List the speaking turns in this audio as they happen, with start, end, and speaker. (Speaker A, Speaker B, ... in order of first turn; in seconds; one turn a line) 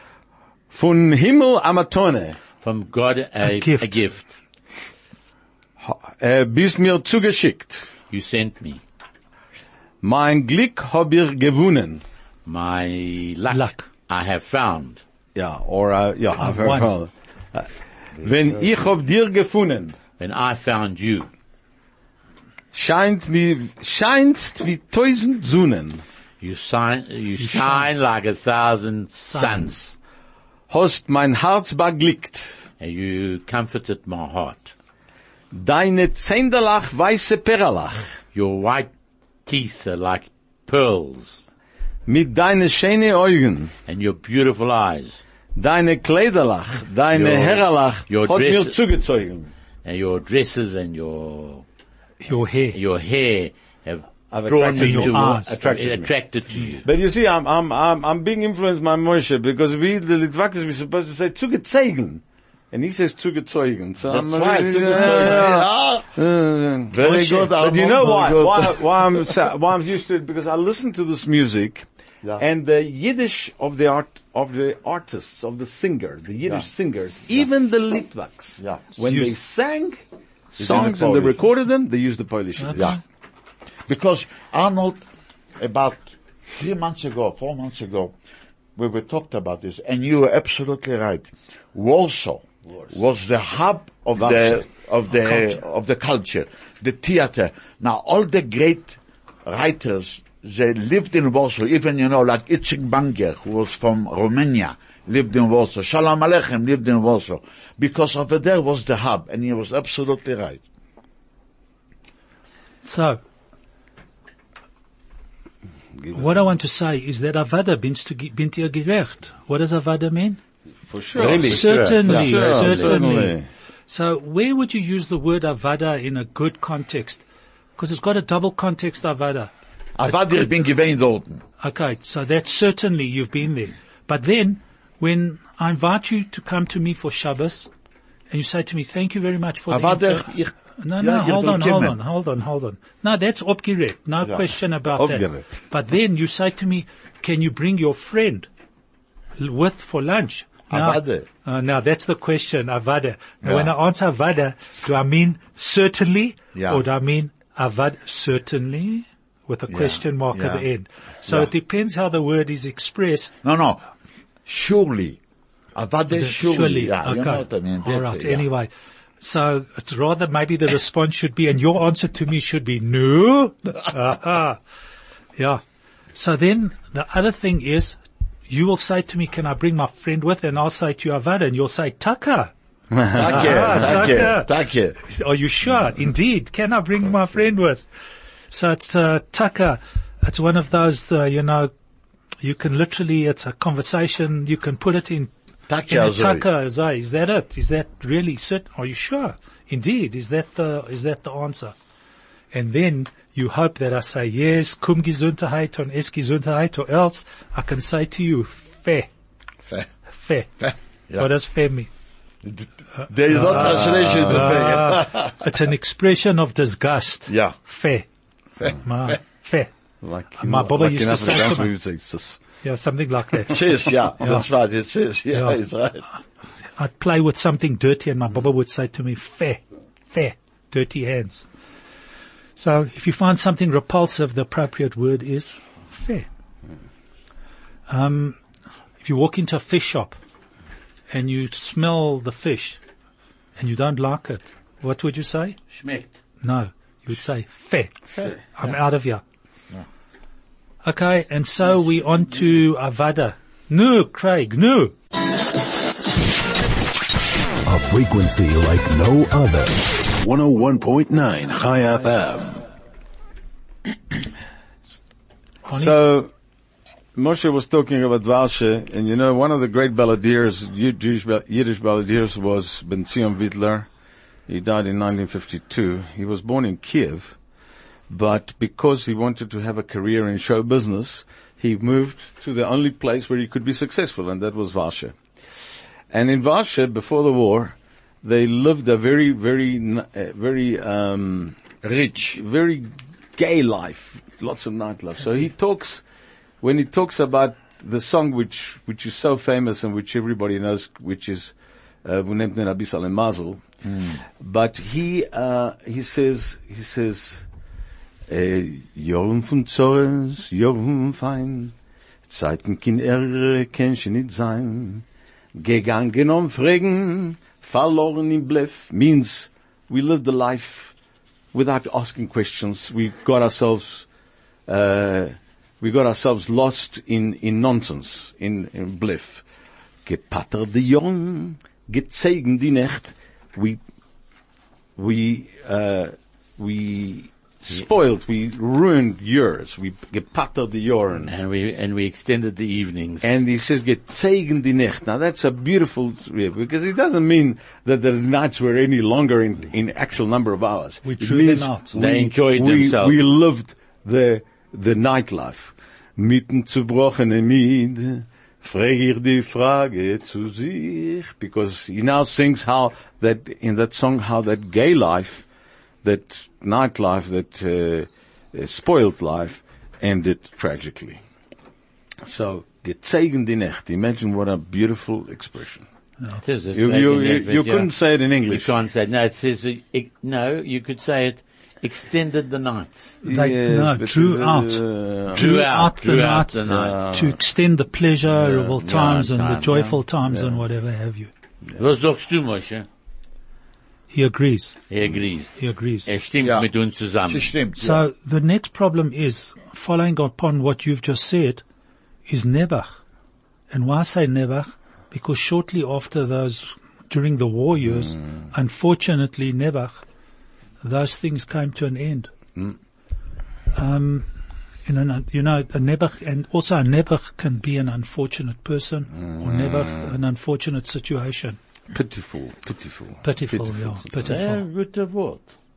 Speaker A: 0.7-2.4
Speaker B: 2.6-4.3
Speaker C: 3.4-4.0
Speaker A: 5.8-7.9
Speaker B: 8.1-8.8
Speaker A: 10.0-12.0
Speaker B: 12.4-15.0
Speaker C: 13.5-13.8
Speaker A: 15.3-19.9
Speaker C: 16.4-16.9
Speaker D: 18.2-18.8
Speaker B: 20.2-21.3
Speaker A: 22.7-26.0
Speaker B: 26.4-29.9
Speaker C: 27.4-27.9
Speaker C: 29.1-29.9
Speaker A: 30.7-32.6
Speaker B: 32.8-34.7
Speaker A: 35.5-38.1
Speaker B: 38.3-38.9
Speaker B: 39.5-41.4
Speaker A: 42.1-43.7
Speaker B: 43.9-45.2
Speaker A: 45.5-49.5
Speaker B: 47.1-48.8
Speaker B: 49.8-51.6
Speaker C: 52.2-52.8
Speaker B: 52.7-56.9
Speaker A: 54.3-56.1
Speaker C: 54.7-55.5
Speaker A: 56.8-71.9
Speaker D: 64.0-66.1
Speaker D: 66.9-69.2
Speaker A: 72.4-82.9
Speaker C: 79.0-79.3
Speaker D: 80.6-81.4
Speaker C: 82.6-83.0
Speaker D: 82.7-83.0
Speaker D: 83.9-85.0
Speaker D: 85.6-88.1
Speaker D: 88.8-110.6
Speaker A: 94.2-94.7
Speaker C: 112.8-113.2
Speaker A: 116.0-116.5
Speaker C: 116.1-120.4
Speaker A: 120.9-123.5
Speaker B: 121.2-123.0
Speaker C: 121.4-127.2
Speaker C: 127.8-129.5
Speaker D: 130.0-131.4
Speaker C: 131.6-137.7
Speaker C: 138.3-140.3
Speaker D: 139.7-141.9
Speaker C: 140.8-148.5
Speaker A: 144.9-145.6
Speaker C: 149.4-163.3
Speaker D: 150.7-151.3
Speaker D: 153.4-153.7
Speaker D: 156.5-156.8
Speaker D: 159.7-160.6
Speaker D: 161.2-161.5
Speaker D: 163.4-163.8
Speaker D: 164.4-165.2
Speaker D: 165.7-168.4
Speaker C: 166.1-174.6
Speaker C: 176.1-182.5
Speaker A: 182.9-184.0
Speaker D: 183.1-185.0
Speaker C: 183.2-184.5
Speaker C: 185.0-187.8
Speaker C: 188.5-191.7
Speaker C: 192.4-195.3
Speaker D: 195.7-196.4
Speaker C: 195.9-201.7
Speaker C: 202.5-209.1
Speaker C: 210.1-211.9
Speaker D: 212.4-215.3
Speaker C: 213.0-218.1
Speaker A: 213.4-214.7
Speaker D: 217.3-217.5
Speaker C: 218.6-219.7
Speaker A: 220.0-222.4
Speaker C: 220.4-221.7
Speaker C: 222.6-224.5
Speaker D: 223.5-226.0
Speaker C: 225.3-225.6
Speaker C: 226.8-231.4
Speaker C: 232.6-236.3
Speaker C: 237.9-238.4
Speaker C: 239.0-240.2
Speaker C: 241.1-242.8
Speaker C: 243.6-245.6
Speaker B: 245.7-246.2
Speaker C: 246.4-249.2
Speaker C: 250.8-254.9
Speaker E: 257.6-262.6
Speaker C: 265.6-265.9
Speaker A: 265.7-266.3
Speaker A: 267.1-273.9
Speaker A: 274.5-277.4
Speaker A: 278.1-285.2
Speaker A: 286.1-291.6
Speaker D: 291.8-292.4
Speaker A: 292.3-296.0
Speaker A: 296.6-303.6
Speaker D: 303.8-304.2
Speaker A: 304.4-307.4
Speaker A: 308.3-311.7
Speaker A: 312.3-315.0
Speaker A: 315.6-320.9
Speaker A: 321.5-324.1
Speaker A: 324.7-329.4
Speaker A: 330.1-333.8
Speaker A: 335.0-341.3
Speaker B: 341.3-343.2
Speaker A: 343.2-365.4
Speaker C: 351.0-352.0
Speaker B: 351.9-353.2
Speaker A: 366.0-371.2
Speaker A: 372.2-375.8
Speaker B: 376.4-377.9
Speaker A: 376.7-378.7
Speaker B: 378.4-383.0
Speaker C: 383.2-391.3
Speaker A: 383.2-385.4
Speaker B: 385.3-387.0
Speaker A: 386.6-387.4
Speaker B: 388.3-390.0
Speaker B: 391.8-392.9
Speaker C: 394.1-394.8
Speaker B: 394.9-395.5
Speaker C: 395.6-396.1
Speaker B: 396.1-397.5
Speaker D: 396.4-396.7
Speaker D: 397.3-398.0
Speaker C: 397.8-401.6
Speaker C: 402.3-403.0
Speaker C: 403.7-410.0
Speaker C: 410.8-412.3
Speaker C: 413.7-414.3
Speaker C: 414.9-421.6
Speaker A: 419.4-420.0
Speaker A: 421.9-424.4
Speaker C: 423.2-424.6
Speaker B: 424.2-425.5